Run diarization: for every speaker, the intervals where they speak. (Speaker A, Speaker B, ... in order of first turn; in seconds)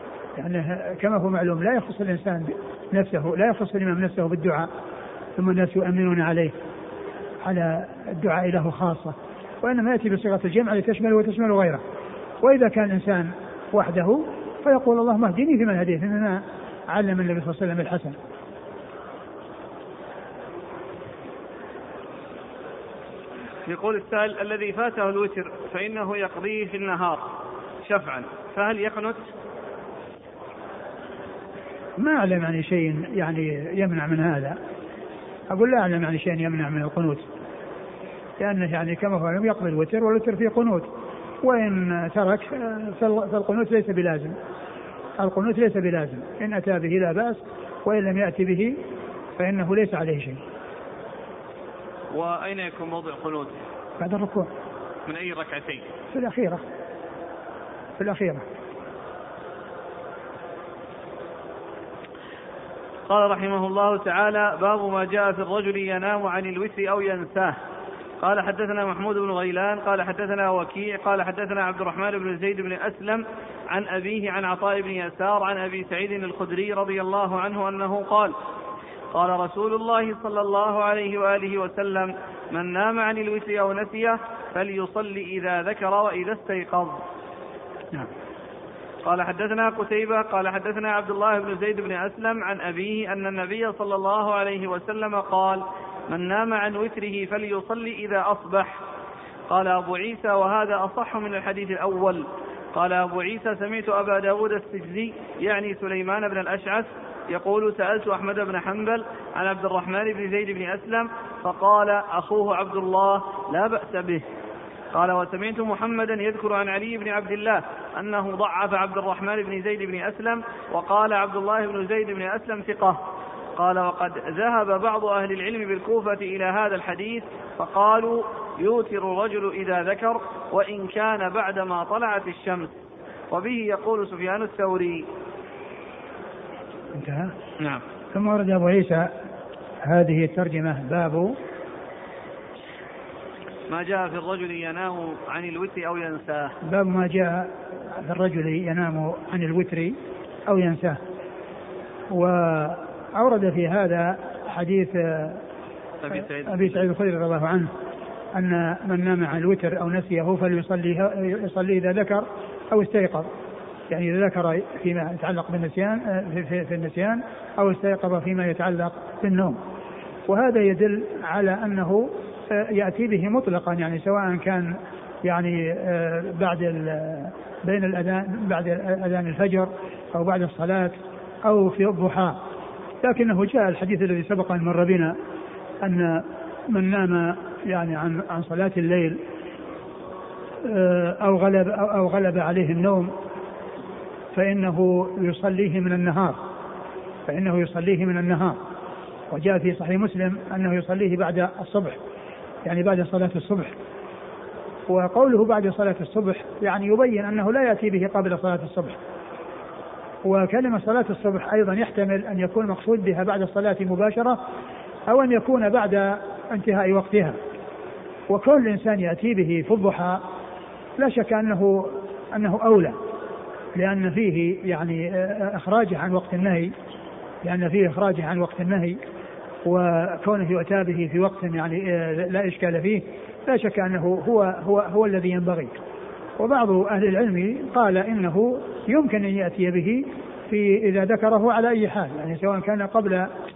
Speaker A: 0.4-4.7, 5.4-6.5, 7.4-11.8, 12.4-16.4, 16.9-18.1, 32.0-34.5, 35.5-37.2, 38.4-40.9, 41.4-44.3, 45.2-48.7, 49.4-50.4, 54.0-54.5, 56.1-56.6, 58.0-58.4, 136.9-137.3, 138.1-139.1, 139.8-141.3, 146.6-150.0, 150.5-151.0, 152.1-155.4, 156.4-157.7, 158.3-163.3, 163.9-169.6, 170.3-174.7, 175.2-182.4, 183.0-185.1, 185.8-189.2, 190.6-193.1, 194.3-196.4, 197.3-198.6, 199.3-202.0, 202.6-203.7, 204.9-209.0, 210.2-214.4, 215.1-217.3, 218.3-220.2, 221.0-222.9, 223.8-226.7, 227.4-229.0, 229.6-235.7, 236.4-243.3
Speaker B: 23.7-27.2, 27.8-29.2, 52.1-53.6, 55.1-55.9, 63.1-67.5, 68.2-78.3, 79.1-87.0, 89.0-98.8, 99.5-114.2, 114.9-123.0, 123.6-135.1, 143.7-146.5, 156.0-156.8